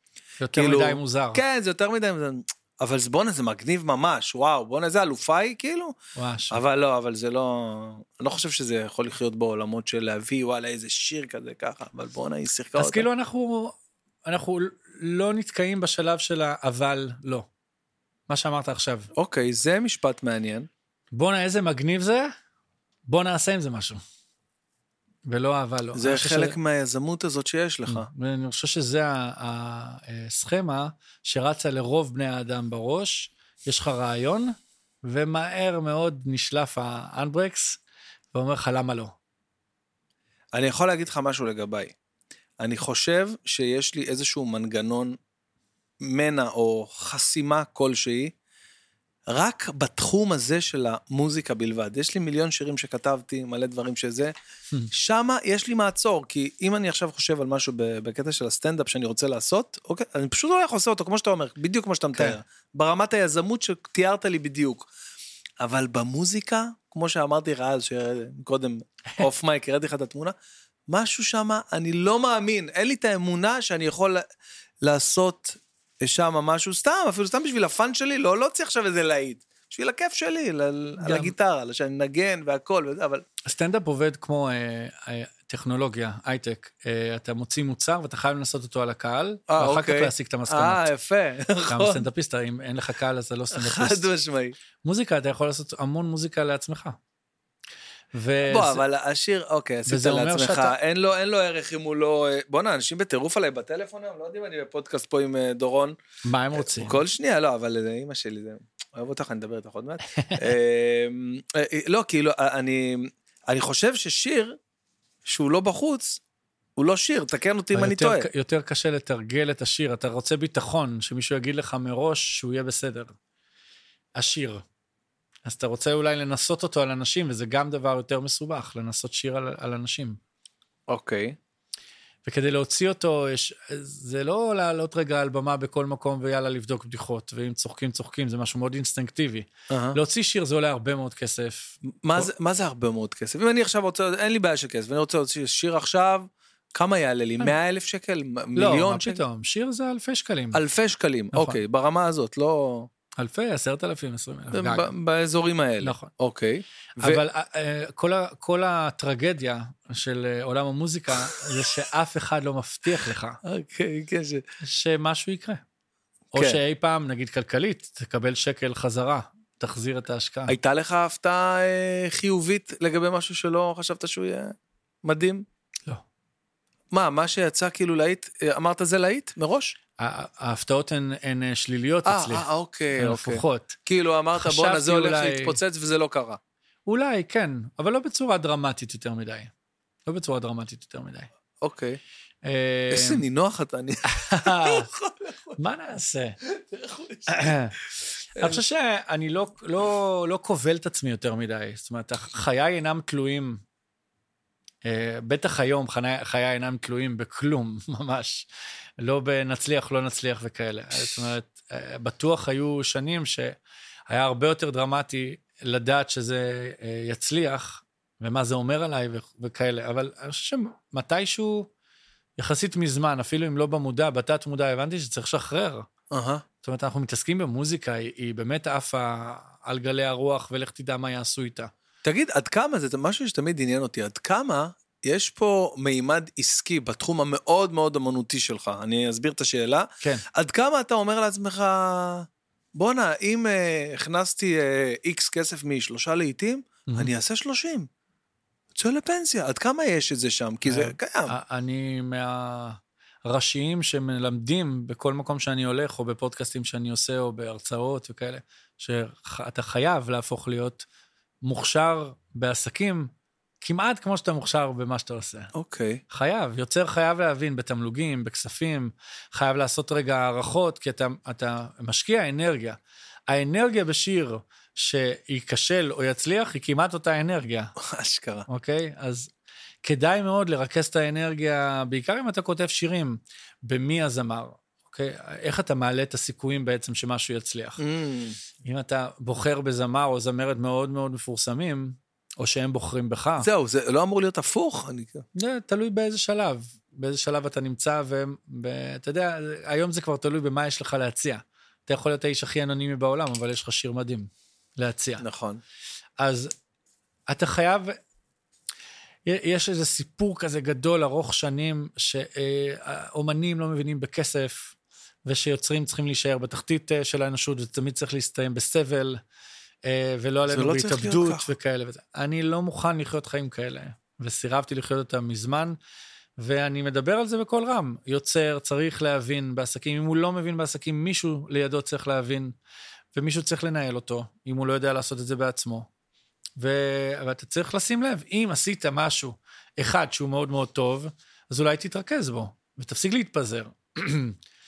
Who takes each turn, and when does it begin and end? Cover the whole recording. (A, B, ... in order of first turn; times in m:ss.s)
0:00.4-0:01.4 A
0:00.5-0:06.0 B
0:06.2-0:06.6 A
0:06.5-0:13.1 B
0:12.8-0:13.8 A
0:14.3-0:17.5 A
0:18.3-0:19.1 A
0:19.2-0:20.7 B
0:21.1-0:22.3 A
0:23.1-0:24.0 A
0:25.3-0:26.6 A
0:26.0-0:28.1 B
0:27.9-0:37.8 A
0:38.3-0:39.1 A
0:40.5-0:41.9 B
0:42.6-0:45.2 B
0:46.0-0:48.3 B
0:49.3-0:54.3 B
0:54.9-1:04.9 B
1:05.6-1:10.4 B
1:10.9-1:14.2 B
1:14.8-1:23.2 B
1:21.0-1:21.3 A
1:23.5-1:30.9 A
1:29.5-1:32.1 B
1:31.7-1:34.1 A
1:33.5-1:34.6 B
1:34.8-1:37.0 A
1:38.1-1:38.8 A
1:38.5-1:46.0 B
1:39.9-1:40.8 A
1:46.2-1:47.0 A
1:46.5-1:54.6 B
1:55.3-1:56.2 B
1:56.8-1:58.3 B
1:57.7-2:03.1 A
2:04.2-2:04.6 A
2:05.4-2:10.2 A
2:10.9-2:11.4 B
2:12.2-2:22.3 A
2:19.7-2:20.0 B
2:21.9-2:29.2 B
2:28.6-2:30.6 A
2:30.5-2:32.9 B
2:31.3-2:31.6 A
2:33.2-2:34.9 A
2:34.5-2:37.2 B
2:35.8-2:36.1 A
2:37.0-2:43.4 A
2:43.4-2:44.4 B
2:44.6-2:45.6 A
2:46.3-2:50.6 A
2:46.4-2:46.6 B
2:50.5-2:55.4 B
2:56.9-2:59.8 B
3:00.0-3:03.8 A
3:02.1-3:06.4 B
3:04.4-3:05.6 A
3:06.9-3:09.5 A
3:10.1-3:11.3 A
3:11.6-3:12.0 B
3:12.4-3:13.2 A
3:12.9-3:15.6 B
3:14.1-3:14.9 A
3:15.6-3:16.4 A
3:16.4-3:17.5 B
3:17.3-3:17.8 A
3:18.4-3:18.6 B
3:18.4-3:23.6 A
3:24.8-3:28.5 A
3:29.0-3:33.6 A
3:34.1-3:41.7 A
3:42.4-3:45.9 A
3:46.1-3:46.4 B
3:46.6-3:51.7 A
3:52.0-4:07.9 B
4:08.8-4:11.3 B
4:10.7-4:20.9 A
4:21.4-4:23.1 A
4:23.6-4:25.5 A
4:25.5-4:26.0 B
4:26.1-4:37.7 A
4:37.8-4:38.5 B
4:38.5-4:39.3 A
4:39.8-4:47.8 A
4:47.8-4:48.4 B
4:48.6-4:53.5 A
4:53.4-4:55.2 B
4:55.4-5:05.2 A
5:05.2-5:05.6 B
5:06.2-5:06.5 A
5:07.3-5:08.0 A
5:09.3-5:14.7 A
5:15.3-5:19.2 A
5:19.8-5:25.8 A
5:20.5-5:21.5 B
5:26.4-5:32.6 A
5:33.1-5:35.9 A
5:36.6-5:44.4 A